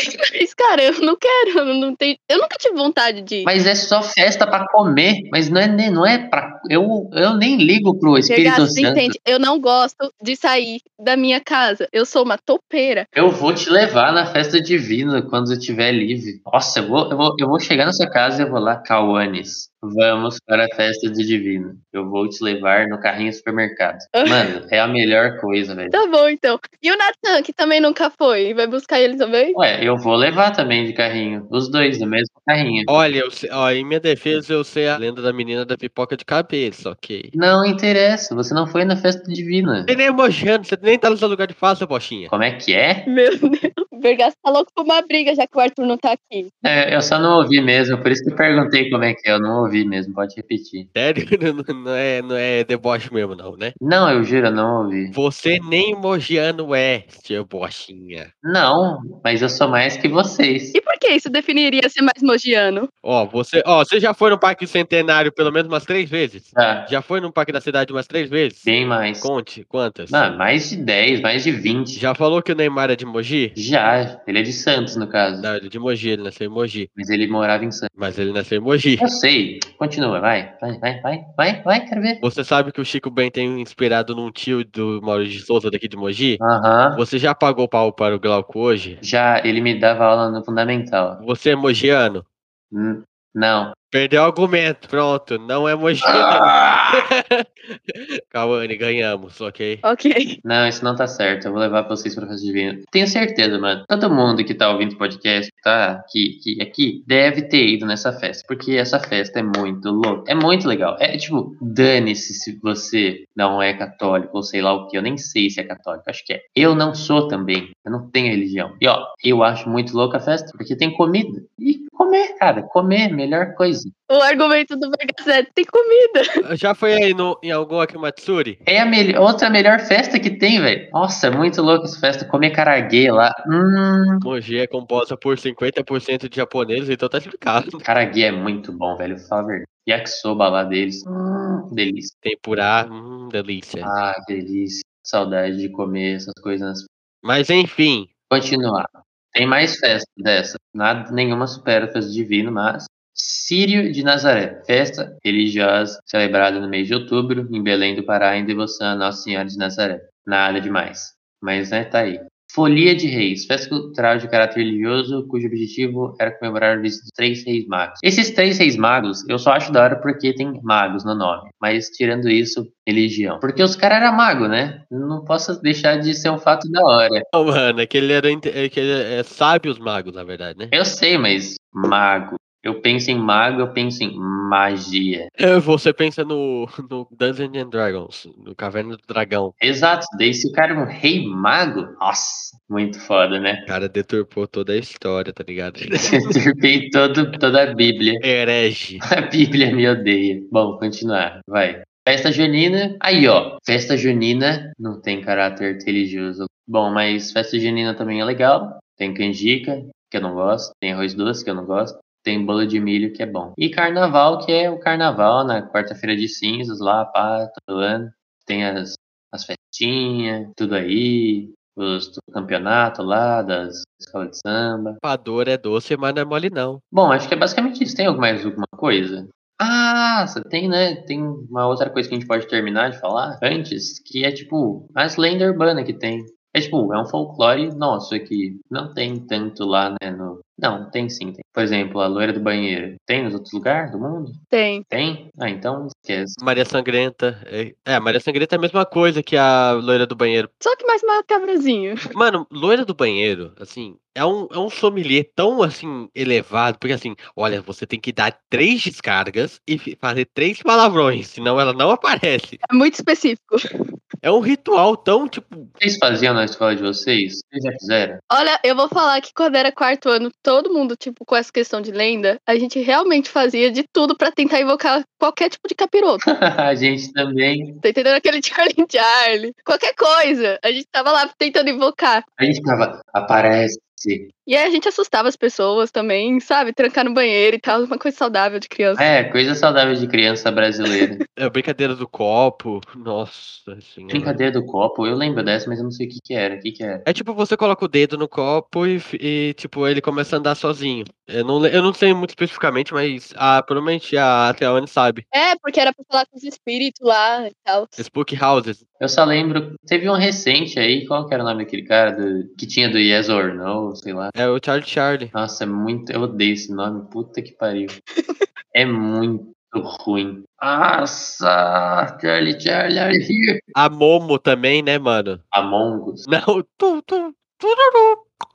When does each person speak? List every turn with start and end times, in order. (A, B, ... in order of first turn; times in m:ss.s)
0:00.2-0:03.5 A
0:03.4-0:09.1 B
0:08.3-0:13.1 A
0:13.1-0:26.0 B
0:24.1-0:24.5 A
0:25.9-0:29.6 A
0:29.5-0:32.9 B
0:32.9-0:37.3 C
0:37.3-0:40.0 B
0:39.9-0:42.3 C
0:42.3-0:43.0 B
0:43.1-0:46.5 A
0:46.6-0:50.9 B
0:50.9-0:53.8 C
0:53.8-0:55.2 B
0:55.1-0:58.3 C
0:58.4-1:00.8 B
1:00.7-1:02.9 A
1:03.0-1:10.2 C
1:06.5-1:06.9 B
1:08.6-1:09.3 B
1:10.1-1:12.0 B
1:12.0-1:13.6 C
1:13.5-1:15.5 B
1:15.4-1:16.9 C
1:17.0-1:17.9 B
1:17.9-1:19.1 C
1:19.0-1:22.2 B
1:22.2-1:26.4 C
1:26.4-1:27.0 B
1:26.9-1:29.0 C
1:29.0-1:31.2 B
1:31.2-1:32.2 C
1:32.7-1:33.8 B
1:33.9-1:39.8 C
1:36.0-1:37.0 B
1:39.8-1:40.4 A
1:40.4-2:03.9 B
2:04.1-2:06.4 A
2:06.4-2:08.6 C
2:08.6-2:14.3 B
2:14.2-2:17.8 C
2:17.8-2:22.1 B
2:22.2-2:23.9 C
2:23.8-2:26.9 B
2:27.2-2:28.1 C
2:28.3-2:57.2 B
2:57.3-3:00.7 C
3:00.7-3:05.3 B
3:05.4-3:09.5 C
3:09.6-3:13.6 B
3:13.7-3:16.3 C
3:16.1-3:18.2 B
3:18.2-3:19.0 C
3:19.1-3:45.0 B
3:45.0-3:46.8 C
3:46.9-4:06.4 B
4:04.5-4:04.8 A
4:06.4-4:10.5 C
4:10.6-4:12.0 A
4:12.1-4:22.6 C
4:22.7-4:23.6 A
4:24.2-4:25.7 C
4:25.8-4:28.2 B
4:28.3-4:36.2 A
4:36.3-4:37.8 B
4:37.8-4:42.2 A
4:42.4-4:44.3 B
4:44.5-4:49.1 A
4:49.0-4:51.2 B
4:51.4-4:54.4 C
4:54.1-4:57.0 B
4:57.0-5:05.2 C
5:05.3-5:08.0 A
5:08.0-5:08.8 C
5:09.0-5:14.3 B
5:14.3-5:15.3 C
5:15.3-5:18.0 B
5:18.2-5:18.4 A
5:18.7-5:23.6 B
5:23.7-5:25.4 C
5:25.5-5:26.2 B
5:26.3-5:28.3 C